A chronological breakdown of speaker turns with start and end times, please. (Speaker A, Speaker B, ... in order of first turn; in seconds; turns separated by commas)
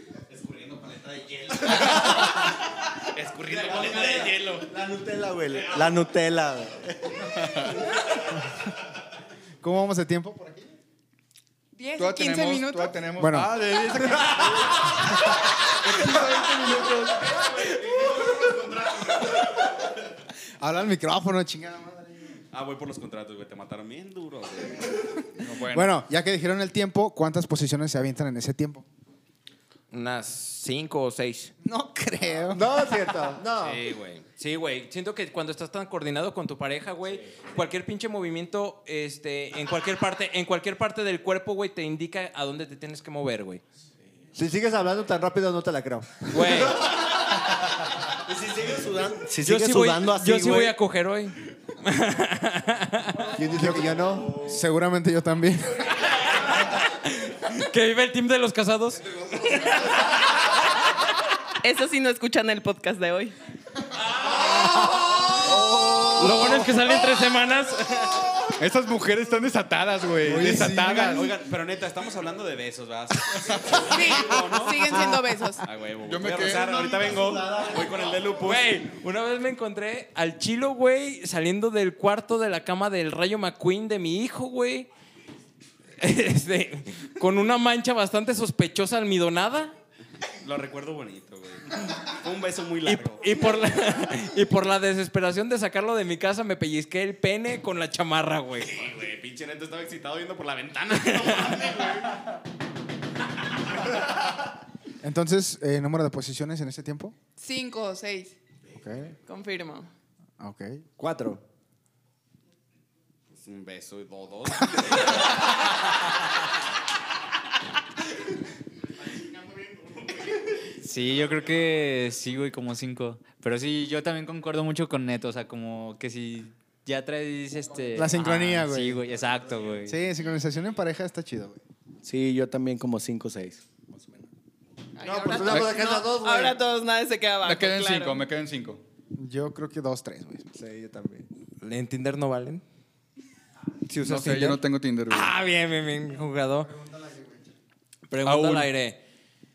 Speaker A: 0.3-4.7, Speaker B: 3.5-7.3, Speaker A: 5.5-5.9, Speaker C: 7.3-7.8, Speaker D: 9.6-10.7, Speaker E: 11.7-13.0, Speaker C: 12.0-18.2, Speaker D: 13.2-13.5, Speaker D: 20.6-22.4, Speaker A: 22.5-25.1, Speaker C: 25.4-25.9, Speaker D: 25.7-28.8, Speaker F: 29.9-31.5, Speaker D: 31.6-33.1, Speaker G: 32.5-33.8, Speaker F: 33.6-43.6, Speaker G: 44.3-47.1, Speaker F: 46.3-46.8, Speaker B: 48.2-50.7, Speaker F: 49.4-53.3, Speaker G: 53.3-54.4, Speaker D: 53.5-56.0, Speaker F: 56.4-60.5, Speaker H: 61.6-63.4, Speaker C: 65.3-66.9, Speaker F: 66.2-68.3, Speaker C: 68.6-71.3, Speaker D: 70.2-71.2, Speaker A: 70.8-78.8, Speaker C: 73.3-73.8, Speaker E: 73.8-75.7, Speaker C: 76.0-77.6, Speaker F: 78.4-84.9, Speaker F: 86.0-89.7, Speaker A: 90.4-93.4, Speaker F: 92.8-98.8, Speaker A: 98.6-102.2, Speaker F: 101.0-101.7, Speaker D: 105.0-107.1, Speaker E: 107.4-108.4, Speaker D: 108.7-109.1, Speaker H: 109.3-109.9, Speaker D: 110.4-110.8, Speaker G: 111.0-111.4, Speaker A: 113.3-115.9, Speaker I: 120.8-129.9, Speaker D: 127.9-129.0, Speaker D: 129.8-131.6, Speaker B: 132.0-133.6, Speaker E: 135.0-136.0, Speaker G: 135.0-136.6, Speaker H: 135.2-138.3, Speaker C: 137.4-138.8, Speaker D: 139.2-140.5, Speaker G: 140.5-141.3, Speaker F: 141.6-142.6, Speaker G: 143.9-144.6, Speaker C: 144.0-145.3, Speaker F: 145.1-146.7, Speaker D: 146.7-147.4, Speaker F: 148.1-149.0, Speaker C: 148.2-148.7